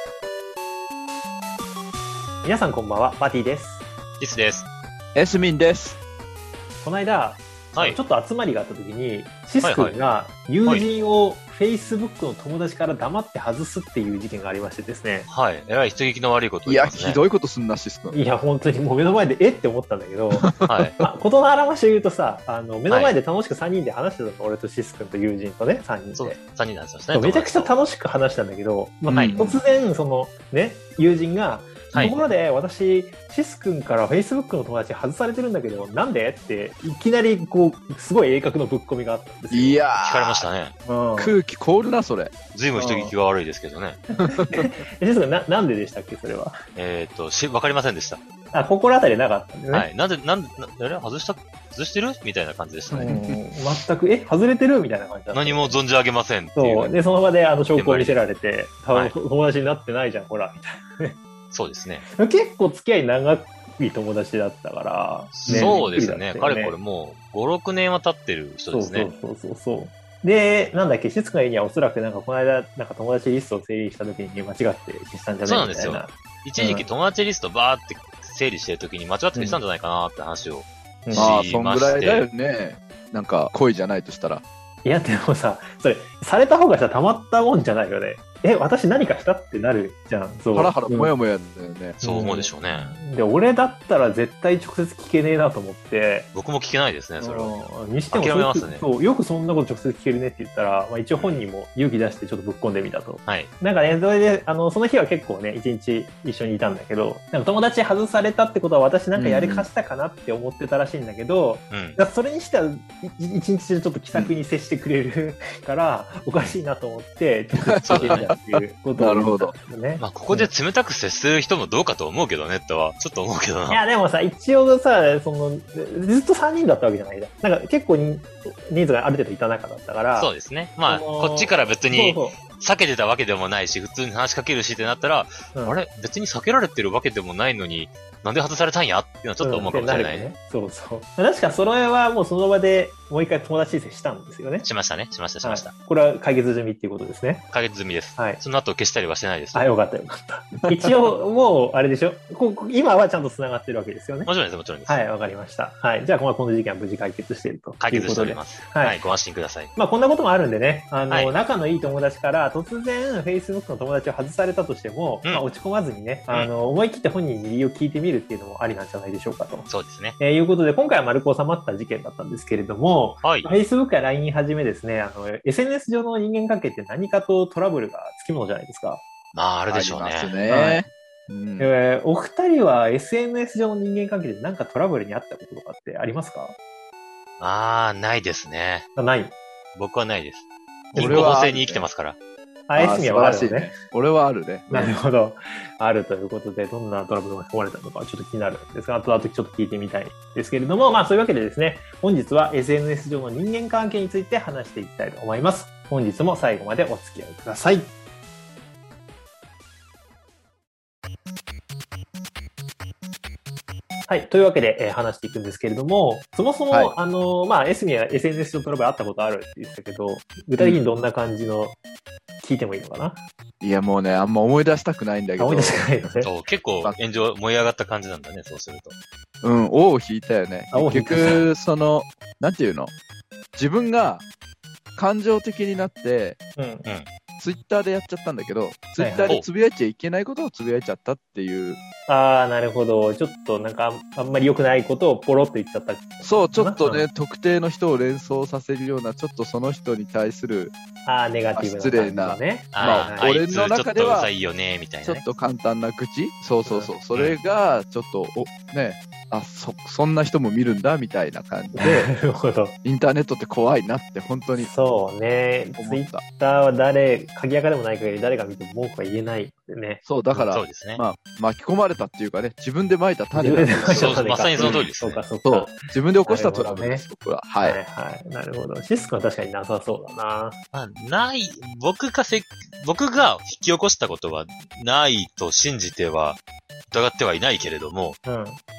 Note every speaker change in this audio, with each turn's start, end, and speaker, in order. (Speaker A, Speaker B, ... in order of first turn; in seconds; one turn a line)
Speaker A: 2.4-3.8
Speaker B: 4.2-4.7
Speaker C: 5.1-6.0
Speaker A: 6.8-15.3
Speaker B: 7.7-8.0
Speaker B: 9.6-9.9
Speaker B: 15.3-17.2
Speaker C: 16.6-18.2
Speaker A: 18.1-26.4
Speaker C: 20.4-21.0
Speaker B: 20.6-20.9
Speaker B: 26.2-27.7
Speaker A: 27.1-39.8
Speaker B: 29.1-29.5
Speaker C: 29.1-29.6
Speaker B: 31.9-32.2
Speaker C: 31.9-32.2
Speaker C: 39.5-40.5
Speaker B: 40.0-40.7
Speaker A: 40.8-41.4
Speaker C: 41.2-42.3
Speaker B: 42.5-44.0
Speaker A: 42.8-43.1
Speaker C: 44.2-44.8
Speaker A: 44.2-46.5
Speaker B: 46.7-48.2
Speaker A: 48.5-49.9
Speaker B: 49.7-53.1
Speaker C: 52.9-53.4
Speaker A: 53.0-55.7
Speaker B: 55.3-56.9
Speaker A: 56.5-61.2
Speaker B: 57.7-58.2
Speaker B: 61.5-62.0
Speaker A: 62.1-66.7
Speaker B: 65.3-69.1
Speaker C: 65.5-65.9
Speaker A: 68.7-76.8
Speaker B: 75.5-82.2
Speaker A: 79.3-79.6
Speaker A: 81.0-81.3
Speaker C: 81.1-84.4
Speaker A: 84.8-91.1
Speaker C: 90.5-92.0
Speaker B: 92.0-93.0
Speaker A: 92.0-96.3
Speaker B: 96.3-97.5
Speaker A: 97.2-120.5
Speaker B: 98.1-98.8
Speaker B: 101.2-101.4
Speaker B: 103.2-103.5
Speaker C: 109.1-109.7
Speaker B: 111.7-112.0
Speaker C: 117.7-119.5
Speaker B: 117.8-118.3
Speaker B: 120.0-123.8
Speaker A: 123.7-130.3
Speaker B: 130.2-140.3
Speaker A: 130.9-132.4
Speaker A: 139.4-144.7
Speaker B: 144.6-145.7
Speaker A: 145.4-147.4
Speaker B: 147.5-149.7
Speaker A: 149.5-154.3
Speaker B: 154.2-155.0
Speaker A: 154.9-159.0
Speaker B: 157.8-159.7
Speaker A: 159.7-179.0
Speaker B: 169.7-170.2
Speaker B: 173.2-173.6
Speaker B: 179.3-180.3
Speaker C: 179.7-181.7
Speaker A: 180.5-180.8
Speaker A: 181.6-186.5
Speaker B: 187.4-188.9
Speaker A: 188.9-189.3
Speaker B: 189.7-192.2
Speaker A: 190.9-191.3
Speaker C: 191.0-191.9
Speaker A: 192.7-193.7
Speaker C: 192.8-195.0
Speaker A: 194.7-207.9
Speaker A: 214.1-221.8
Speaker C: 216.7-216.9
Speaker C: 220.6-220.9
Speaker A: 222.4-223.2
Speaker C: 223.6-225.9
Speaker A: 225.4-226.3
Speaker B: 226.2-228.9
Speaker C: 229.4-232.9
Speaker A: 230.7-231.4
Speaker C: 233.5-234.2
Speaker C: 234.9-236.4
Speaker A: 236.6-236.8
Speaker C: 237.4-241.8
Speaker A: 239.0-239.3
Speaker A: 242.1-247.1
Speaker C: 246.2-250.7
Speaker A: 251.1-253.4
Speaker C: 251.5-254.3
Speaker B: 252.7-255.2
Speaker C: 255.0-262.1
Speaker A: 256.6-256.9
Speaker A: 261.7-262.7
Speaker C: 262.8-264.7
Speaker A: 264.6-270.0
Speaker C: 265.8-266.2
Speaker C: 270.0-274.8
Speaker B: 270.4-271.0
Speaker A: 273.3-277.0
Speaker B: 273.9-275.2
Speaker C: 275.4-277.8
Speaker A: 277.6-280.6
Speaker B: 280.7-286.4
Speaker B: 286.9-288.2
Speaker A: 288.2-288.6